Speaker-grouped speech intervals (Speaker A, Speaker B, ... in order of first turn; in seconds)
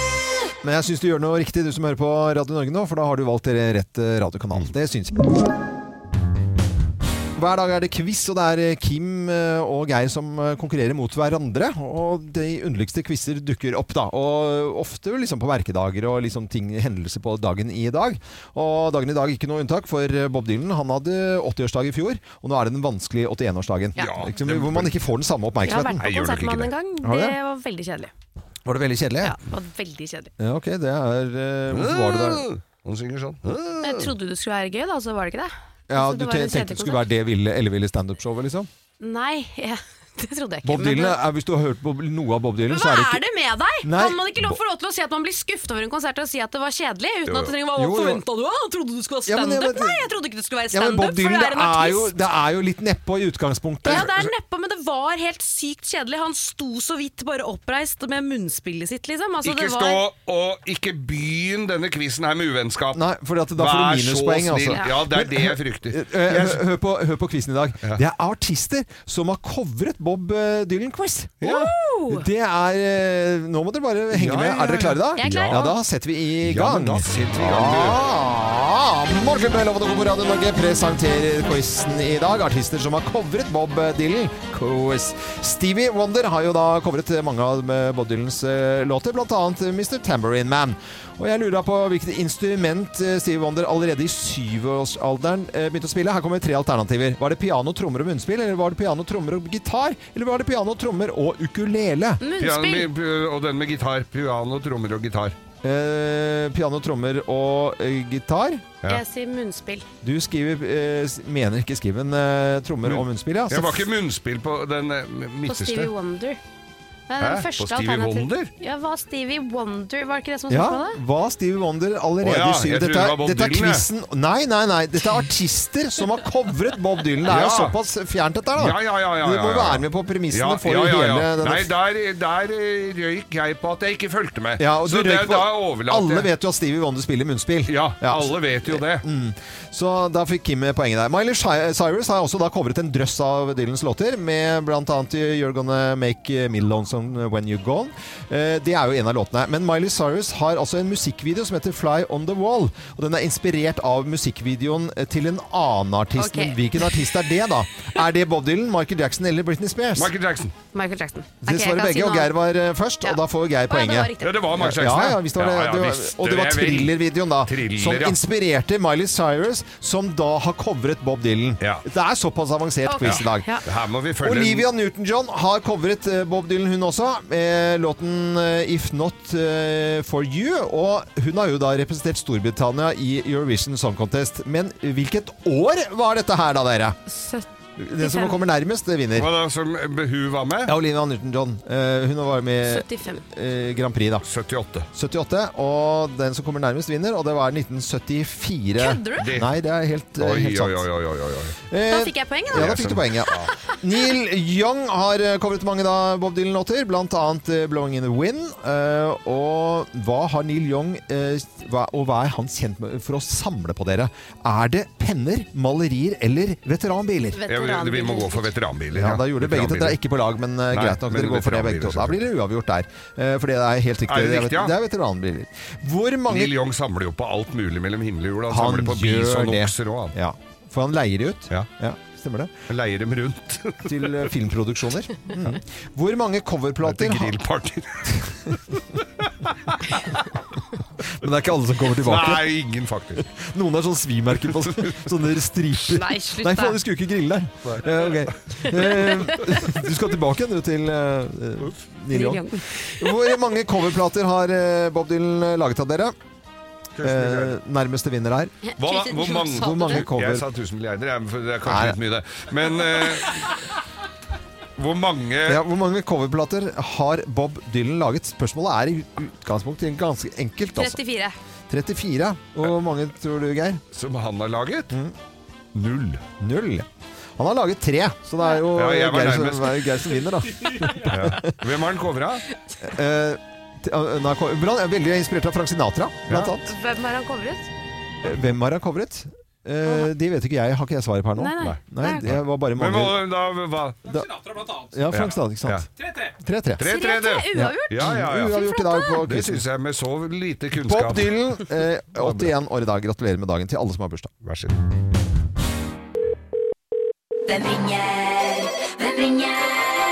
Speaker A: 0.6-5.5, 7.3-26.1, 27.0-27.4, 28.6-29.4, 30.4-32.5, 35.9-38.7, 40.6-43.2, 43.8-44.6, 47.7-48.2, 49.2-50.1, 50.7-54.1, 62.9-71.4, 72.1-102.2, 105.6-108.7, 110.0-113.9, 120.5-131.7, 134.6-160.1, 161.4-173.6, 174.2-187.0, 187.8-189.3, 190.7-194.2, 194.9-200.9, 201.7-217.4, 218.9-226.6, 228.5-232.5, 233.8-237.4, 241.0-242.4, 243.2-256.1, 257.0-258.5, 259.5-260.4, 261.6-262.0, 265.4-271.0, 271.7-273.8, 276.4-281.6, 282.8-286.7, 288.2-293.2, 294.0-296.9, 297.5-299.6, 300.8-304.3
Speaker B: 24.0-25.0, 26.0-26.7, 31.7-33.9, 47.3-47.5, 53.9-54.3, 59.4-63.0, 63.6-66.6, 71.4-71.7, 74.1-75.6, 76.4-78.0, 102.4-105.3, 112.8-115.9, 117.2-118.5, 122.2-123.8, 127.2-127.8, 128.6-136.3, 137.7-139.0, 159.9-160.5, 164.2-168.2, 173.0-174.7, 189.1-190.7, 194.2-194.9, 199.2-199.5, 200.2-201.6, 202.5-203.5, 217.5-220.0, 220.7-222.2, 224.1-224.7, 226.3-230.1, 232.7-234.3, 236.8-240.2, 242.0-243.3, 244.5-245.0, 247.6-248.3, 256.9-257.6, 258.8-263.6, 264.8-265.6, 273.9-274.9, 275.7-276.2, 278.7-280.1, 280.8-282.4, 291.6-294.2, 295.1-295.9, 296.8-298.6, 299.2-301.4, 302.1-302.5, 304.4-304.8
Speaker C: 25.6-28.1, 29.2-30.3, 33.8-37.0, 39.0-41.2, 42.7-52.1, 53.8-60.0, 71.4-72.2, 75.1-75.7, 102.2-102.9, 108.8-109.8, 115.5-116.4, 117.1-121.0, 156.2-157.0, 160.7-162.3, 163.0-164.3, 172.8-173.6, 187.1-187.5, 188.0-188.4, 192.6-193.2, 198.8-199.3, 201.9-202.7, 217.3-218.5, 245.8-246.8, 248.6-249.6, 252.1-253.1, 258.6-260.0, 270.7-271.4, 286.6-287.7, 291.4-292.3, 296.8-299.2, 307.5-309.7